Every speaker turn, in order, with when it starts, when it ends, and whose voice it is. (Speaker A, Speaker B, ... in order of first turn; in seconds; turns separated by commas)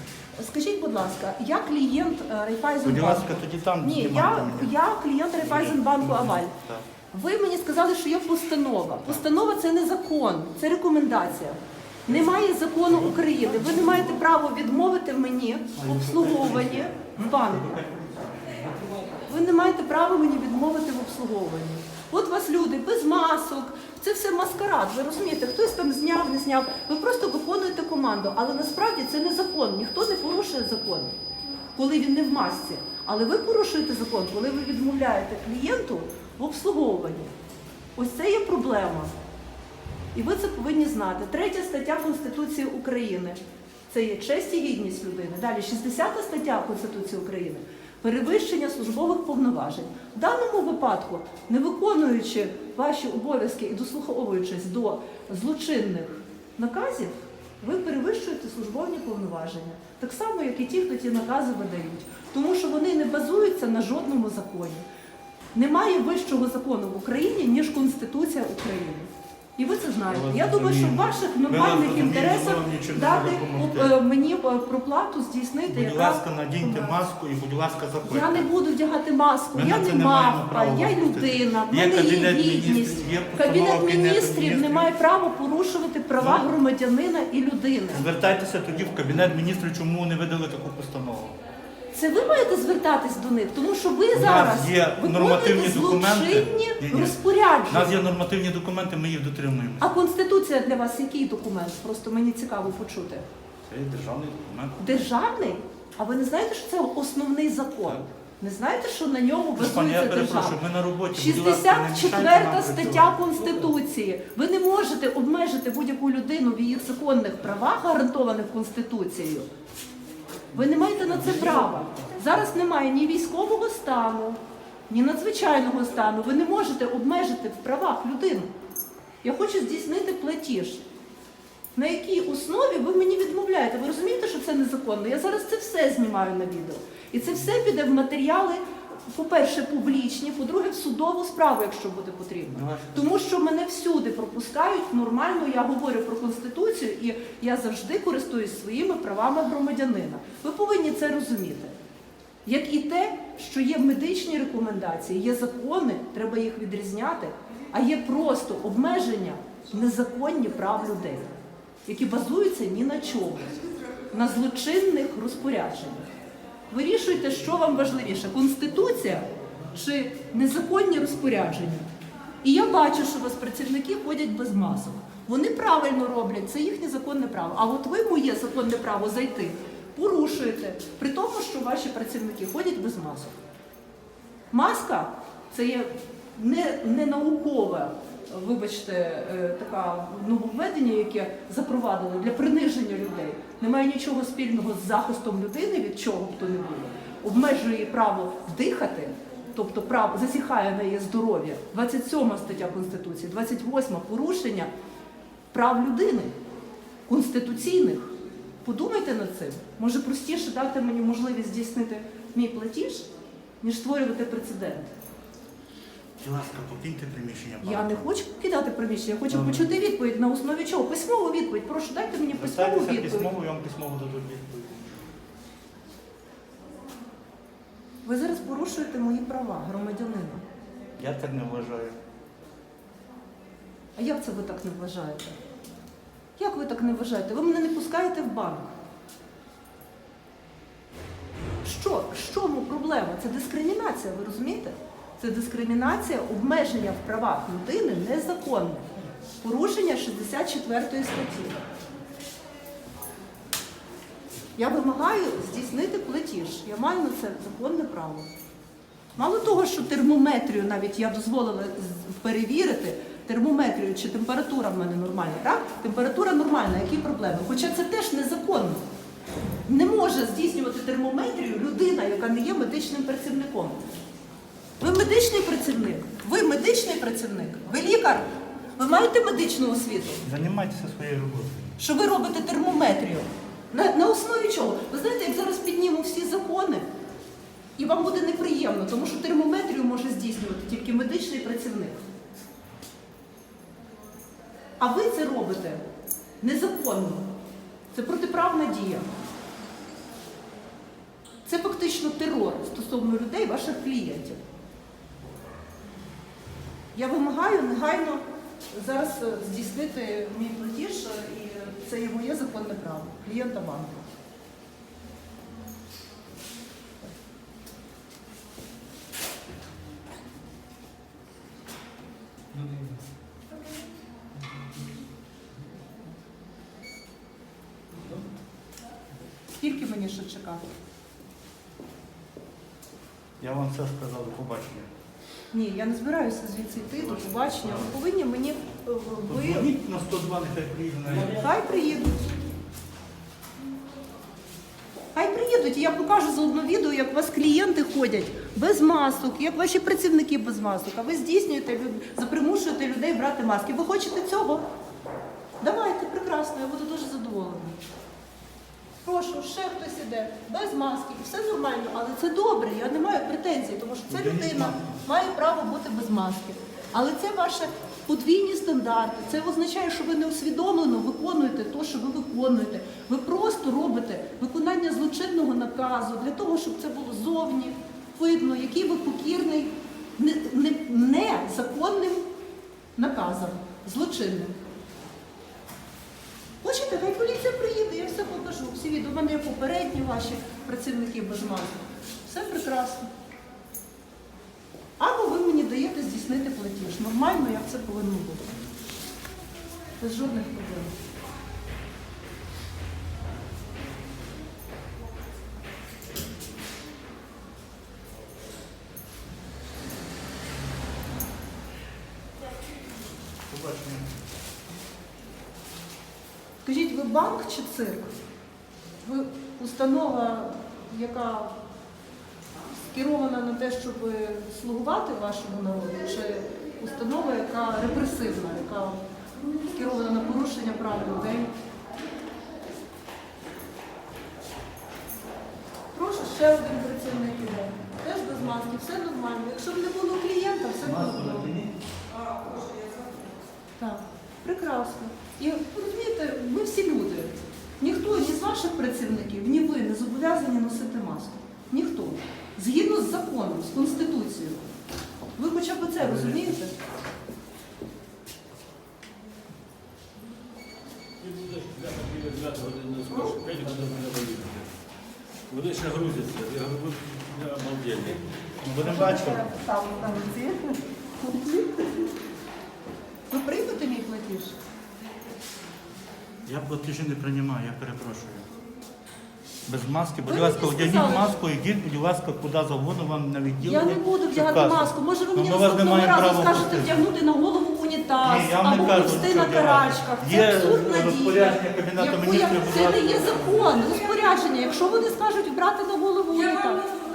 Speaker A: 0.4-6.5, Speaker B: 2.8-4.8, Speaker B: 5.4-6.9, Speaker A: 7.1-17.8, Speaker B: 12.1-12.3, Speaker B: 12.9-14.2, Speaker B: 15.8-19.3, Speaker A: 19.3-31.2, Speaker A: 31.8-37.3, Speaker A: 38.0-39.1, Speaker A: 40.1-43.4, Speaker A: 43.9-64.8, Speaker A: 65.5-77.0, Speaker B: 70.1-73.9, Speaker B: 75.7-78.5, Speaker A: 78.0-88.0, Speaker B: 79.5-84.9, Speaker B: 86.2-86.4, Speaker B: 87.9-91.4, Speaker A: 91.9-98.0, Speaker B: 94.1-99.9, Speaker A: 99.8-103.2, Speaker B: 103.7-105.0, Speaker A: 104.8-119.5, Speaker B: 109.6-113.2, Speaker A: 120.5-128.5, Speaker B: 120.9-122.0, Speaker A: 129.2-130.8, Speaker A: 131.8-151.7, Speaker B: 142.5-143.2, Speaker A: 152.4-161.2, Speaker A: 161.8-163.6, Speaker A: 164.1-166.0, Speaker A: 166.7-171.9, Speaker A: 172.4-183.3, Speaker A: 184.5-204.7, Speaker A: 205.5-206.3, Speaker A: 207.1-213.1, Speaker A: 213.6-214.9, Speaker B: 216.2-218.1, Speaker A: 217.6-223.3, Speaker B: 219.3-219.7, Speaker B: 222.3-225.0, Speaker A: 228.0-230.4, Speaker B: 231.0-232.0, Speaker A: 234.0-235.4, Speaker A: 236.4-238.7, Speaker A: 241.6-248.9, Speaker A: 249.4-251.7, Speaker A: 254.6-258.3, Speaker A: 259.1-268.8, Speaker A: 269.6-273.8, Speaker A: 274.8-280.2, Speaker B: 280.2-281.8, Speaker A: 281.8-286.9, Speaker A: 287.8-292.0, Speaker A: 294.8-295.8, Speaker A: 296.4-297.3, Speaker A: 297.9-299.1, Speaker A: 301.4-304.4, Speaker A: 306.9-314.1, Speaker A: 329.6-330.6, Speaker B: 333.4-334.9, Speaker A: 335.5-339.7, Speaker B: 336.9-337.9, Speaker B: 339.3-341.5, Speaker A: 341.2-342.2, Speaker A: 345.1-354.6, Speaker A: 355.6-357.8, Speaker A: 359.0-382.2, Speaker B: 364.1-365.0, Speaker A: 382.9-384.6, Speaker A: 386.6-393.1, Speaker A: 395.0-398.5, Speaker A: 400.0-400.9, Speaker B: 413.5-414.1, Speaker A: 416.6-418.1, Speaker A: 419.0-421.6, Speaker A: 422.9-429.0, Speaker A: 429.7-431.5, Speaker A: 435.9-441.5, Speaker B: 440.8-441.8, Speaker A: 443.8-454.6, Speaker A: 455.4-456.7, Speaker B: 456.0-456.4, Speaker C: 461.2-464.7, Speaker C: 465.5-468.4, Speaker B: 468.6-469.5, Speaker A: 468.8-472.0, Speaker A: 473.3-474.6, Speaker B: 476.4-478.5, Speaker B: 479.7-487.0, Speaker A: 480.2-481.4, Speaker A: 483.6-497.0, Speaker B: 488.2-493.6